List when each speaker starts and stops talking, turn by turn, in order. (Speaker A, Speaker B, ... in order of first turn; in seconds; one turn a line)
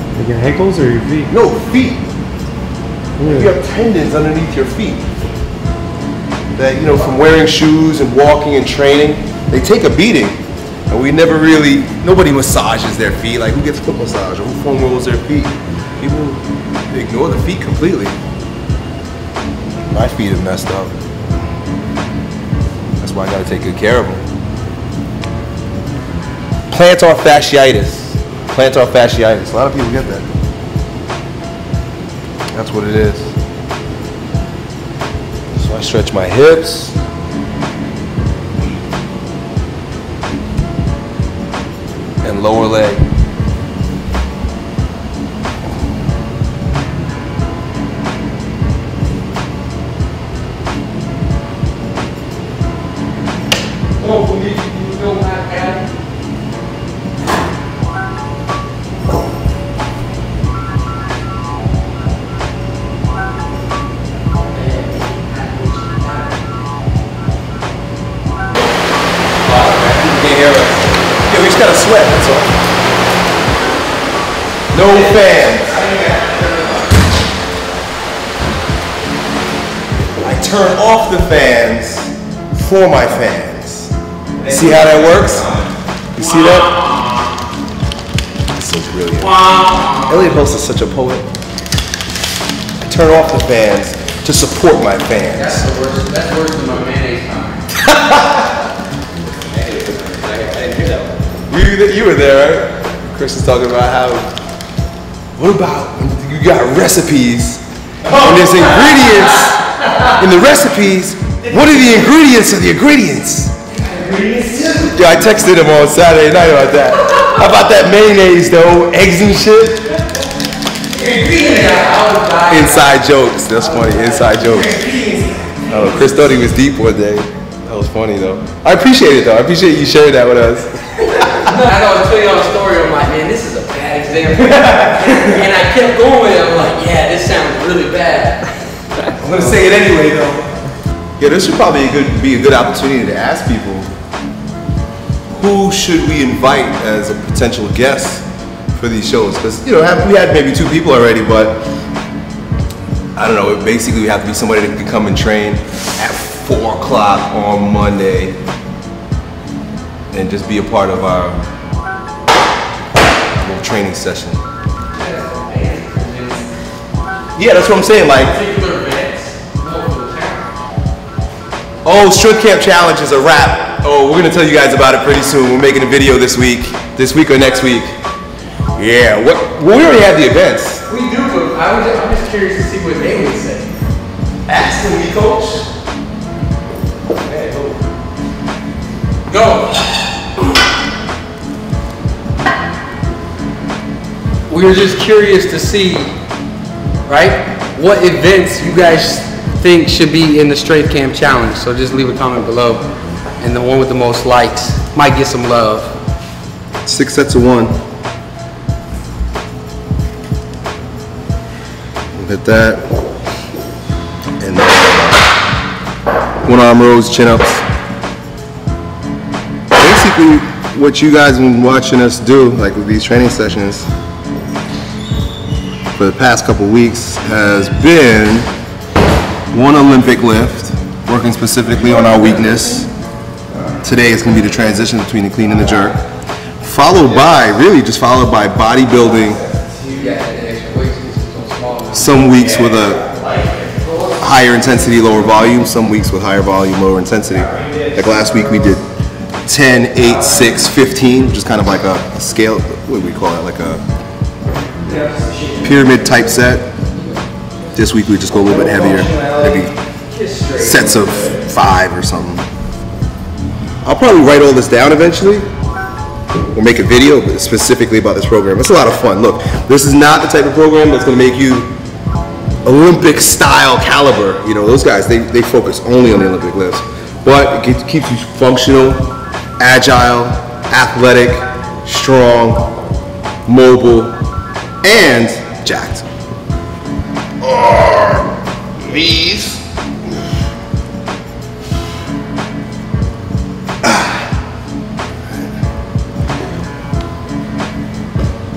Speaker A: 0.1-1.3
Speaker B: 1.3-2.0
Speaker A: 3.2-3.5
Speaker B: 3.2-5.1
Speaker B: 6.6-18.2
Speaker B: 19.9-21.0
Speaker B: 23.0-24.2
Speaker B: 26.7-30.3
Speaker B: 32.5-33.3
Speaker B: 35.5-37.0
Speaker B: 42.2-43.0
Speaker C: 54.0-55.9
Speaker C: 64.5-66.4
Speaker C: 69.5-70.9
Speaker B: 71.3-72.5
Speaker B: 74.7-75.8
Speaker C: 74.9-76.8
Speaker B: 80.2-83.9
Speaker B: 84.5-85.5
Speaker C: 84.5-85.7
Speaker B: 86.2-86.7
Speaker C: 86.2-87.2
Speaker B: 88.6-89.5
Speaker C: 89.2-90.3
Speaker B: 90.0-91.3
Speaker B: 92.9-95.7
Speaker C: 95.3-97.6
Speaker B: 97.8-98.5
Speaker C: 99.5-101.1
Speaker B: 101.5-104.3
Speaker B: 105.4-113.6
Speaker C: 113.7-114.9
Speaker B: 114.7-119.9
Speaker C: 120.9-125.3
Speaker B: 122.5-124.8
Speaker B: 125.7-131.6
Speaker C: 131.4-138.5
Speaker B: 134.4-135.4
Speaker B: 139.2-140.5
Speaker B: 141.2-143.9
Speaker B: 145.3-151.6
Speaker B: 153.2-158.4
Speaker B: 160.1-161.4
Speaker B: 163.3-164.4
Speaker C: 164.9-166.5
Speaker B: 167.4-168.3
Speaker C: 168.1-170.5
Speaker B: 171.8-177.9
Speaker B: 178.8-180.8
Speaker C: 180.9-183.8
Speaker B: 184.5-185.7
Speaker B: 187.2-187.8
Speaker C: 189.3-189.9
Speaker C: 194.5-196.1
Speaker C: 197.1-202.9
Speaker C: 203.4-205.9
Speaker B: 206.9-207.8
Speaker B: 212.2-212.9
Speaker B: 214.4-215.3
Speaker B: 216.4-217.7
Speaker B: 219.8-223.9
Speaker B: 226.0-228.5
Speaker B: 229.5-232.9
Speaker B: 233.8-236.0
Speaker B: 236.6-239.4
Speaker A: 239.3-239.9
Speaker C: 239.9-242.7
Speaker B: 241.9-243.0
Speaker A: 242.8-243.5
Speaker C: 243.7-244.2
Speaker B: 244.2-248.8
Speaker A: 247.5-248.3
Speaker B: 249.5-253.8
Speaker C: 254.9-255.6
Speaker B: 255.6-256.7
Speaker C: 256.9-257.2
Speaker B: 257.8-259.7
Speaker A: 258.5-259.7
Speaker C: 260.1-261.2
Speaker B: 260.6-262.5
Speaker B: 263.9-265.5
Speaker B: 266.5-271.7
Speaker B: 272.6-279.1
Speaker B: 279.6-282.7
Speaker B: 283.5-284.2
Speaker B: 284.8-286.1
Speaker B: 287.4-289.6
Speaker B: 293.8-294.2